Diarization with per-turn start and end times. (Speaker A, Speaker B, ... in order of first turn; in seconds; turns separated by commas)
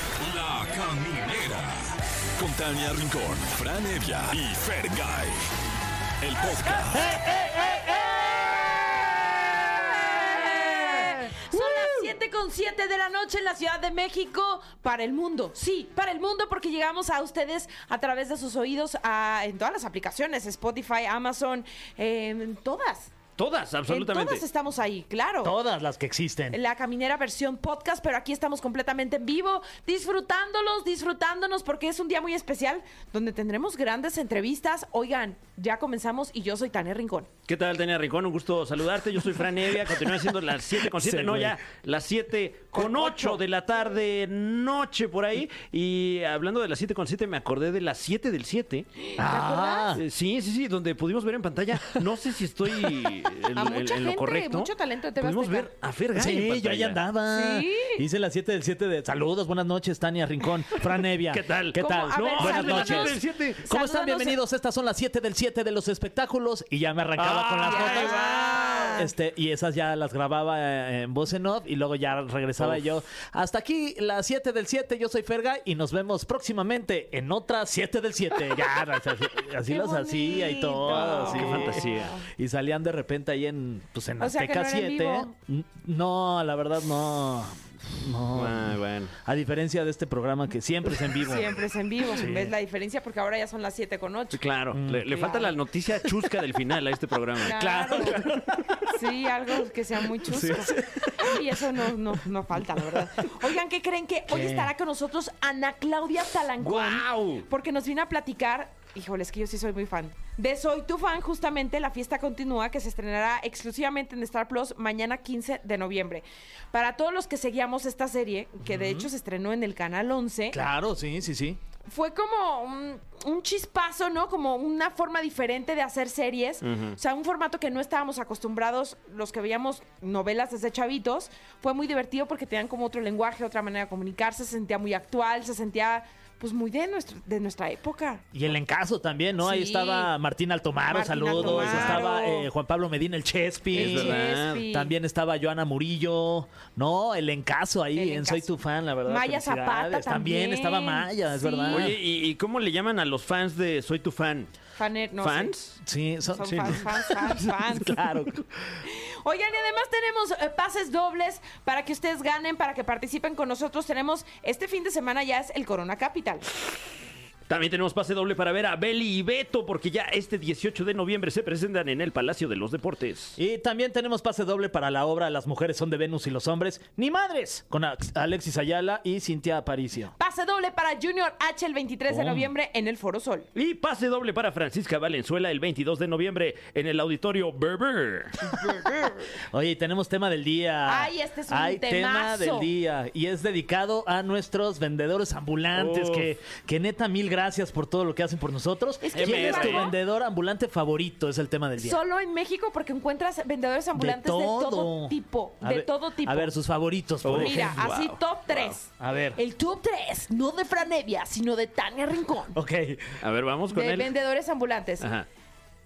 Speaker A: 0.2-5.4, Speaker A: 6.2-7.1, Speaker B: 6.9-11.9, Speaker C: 9.6-23.1, Speaker D: 23.4-24.4, Speaker C: 23.9-25.5, Speaker B: 25.4-26.6, Speaker C: 26.5-37.3, Speaker D: 37.5-49.1, Speaker B: 40.8-41.5, Speaker C: 42.7-43.4, Speaker C: 49.0-49.9, Speaker B: 49.2-50.0, Speaker D: 49.9-57.0, Speaker C: 53.5-55.7, Speaker B: 56.1-91.5, Speaker C: 57.3-58.0, Speaker D: 61.3-63.6, Speaker C: 61.7-64.4, Speaker D: 67.2-68.9, Speaker C: 67.6-69.1, Speaker C: 79.7-82.2, Speaker D: 81.1-82.1, Speaker C: 84.2-85.3, Speaker D: 88.3-89.1, Speaker C: 91.2-94.4, Speaker B: 92.1-92.5, Speaker D: 94.3-98.4, Speaker B: 94.7-95.2, Speaker C: 95.1-95.5, Speaker C: 97.4-98.2, Speaker B: 97.5-98.8, Speaker C: 98.9-120.6, Speaker B: 100.2-103.2, Speaker B: 104.3-104.7, Speaker D: 106.6-107.5, Speaker B: 118.6-119.1, Speaker B: 120.5-121.6, Speaker C: 121.9-138.2, Speaker D: 126.6-127.0, Speaker B: 138.3-151.9, Speaker C: 139.4-140.1, Speaker C: 140.9-142.5, Speaker D: 141.3-142.0, Speaker C: 143.7-144.9, Speaker D: 143.7-144.6, Speaker C: 147.9-148.5, Speaker C: 149.0-151.9, Speaker D: 151.7-154.5, Speaker C: 154.8-155.5, Speaker D: 155.2-155.8, Speaker B: 155.8-158.8, Speaker C: 156.3-158.1, Speaker D: 156.5-156.8, Speaker C: 158.8-166.4, Speaker D: 167.5-173.4, Speaker B: 173.4-180.1, Speaker C: 180.2-183.5, Speaker B: 182.1-182.5, Speaker D: 183.5-188.5, Speaker C: 188.5-189.2, Speaker B: 189.5-202.0, Speaker C: 190.9-192.7, Speaker D: 195.7-196.3, Speaker C: 199.0-199.9, Speaker D: 199.1-199.9, Speaker C: 201.8-206.5, Speaker B: 203.9-207.8, Speaker D: 207.2-208.8, Speaker C: 207.3-212.6, Speaker B: 209.0-209.4, Speaker B: 212.5-213.2, Speaker D: 213.2-214.1, Speaker C: 213.7-215.1, Speaker D: 215.0-215.3